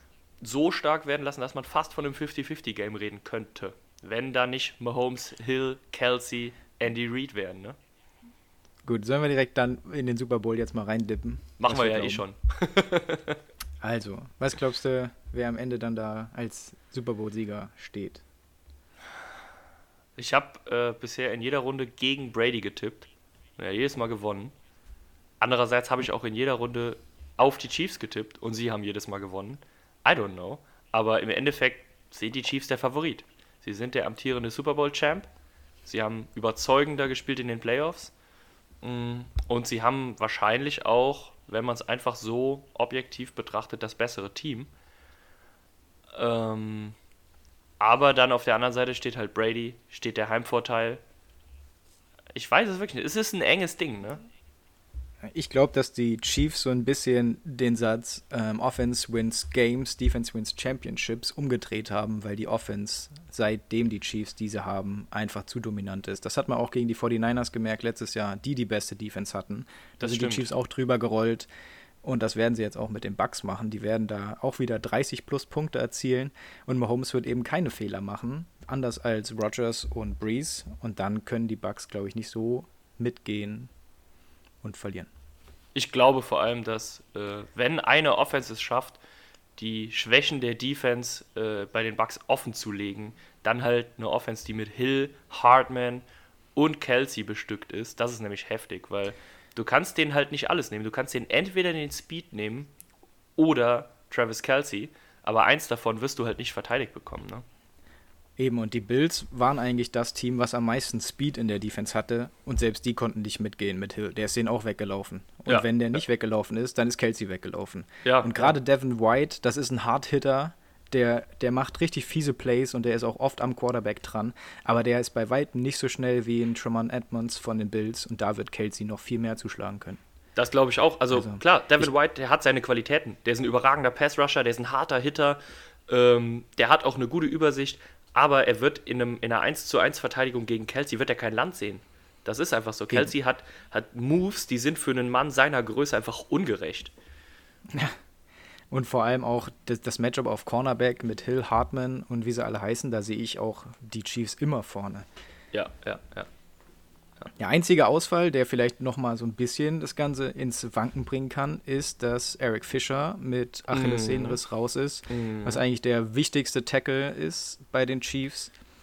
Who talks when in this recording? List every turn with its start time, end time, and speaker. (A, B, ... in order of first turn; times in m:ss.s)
0:00.4-0:07.8 A
0:08.8-0:12.2 B
0:11.6-0:13.4 A
0:13.8-0:18.2 B
0:20.2-0:24.5 A
0:25.4-0:35.3 A
0:35.8-0:38.1 A
0:38.8-0:44.7 A
0:46.1-0:46.9 A
0:47.8-0:51.0 A
0:52.3-0:54.2 A
0:55.2-1:11.5 B
1:10.0-1:10.5 A
1:12.0-1:23.7 B
1:24.6-1:25.1 B
1:25.7-1:29.0 A
1:29.6-1:36.0 A
1:36.5-1:42.7 A
1:43.4-1:47.4 A
1:48.4-2:10.0 B
1:58.0-1:58.6 A
2:10.4-2:26.9 A
2:11.1-2:11.9 B
2:27.7-2:28.0 B
2:28.7-2:35.1 B
2:35.5-2:36.3 A
2:37.4-2:48.5 B
2:43.7-2:44.4 A
2:45.1-2:45.6 A